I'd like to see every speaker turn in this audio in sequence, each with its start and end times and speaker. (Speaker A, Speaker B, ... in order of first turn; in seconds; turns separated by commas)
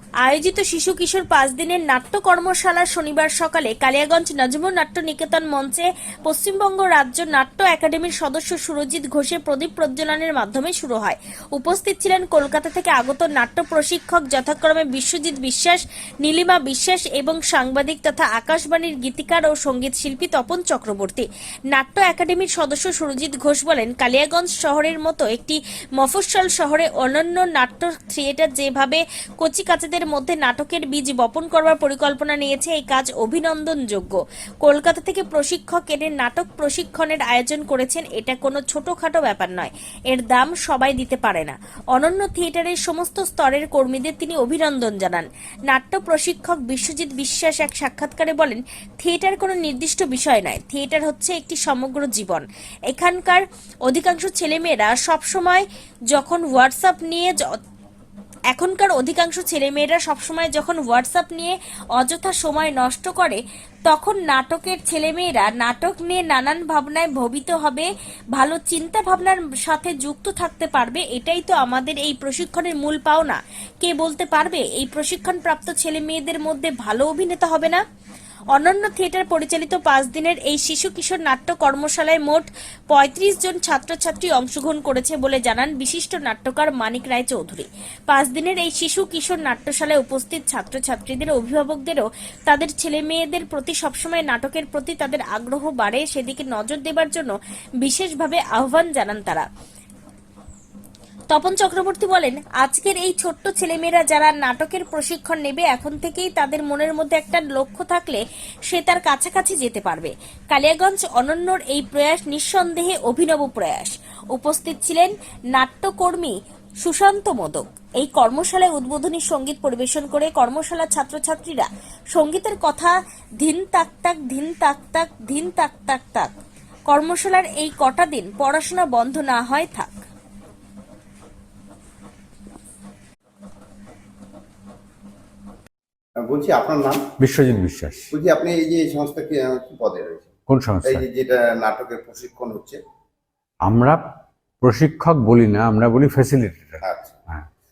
Speaker A: 0.2-57.5, Speaker A: 58.5-77.8, Speaker A: 78.5-99.5, Speaker A: 101.3-126.3, Speaker A: 126.9-129.9, Speaker B: 136.3-137.0, Speaker C: 137.2-138.1, Speaker B: 138.1-140.3, Speaker C: 140.5-141.1, Speaker B: 140.8-142.8, Speaker C: 143.7-144.0, Speaker C: 144.6-147.5, Speaker B: 146.8-147.2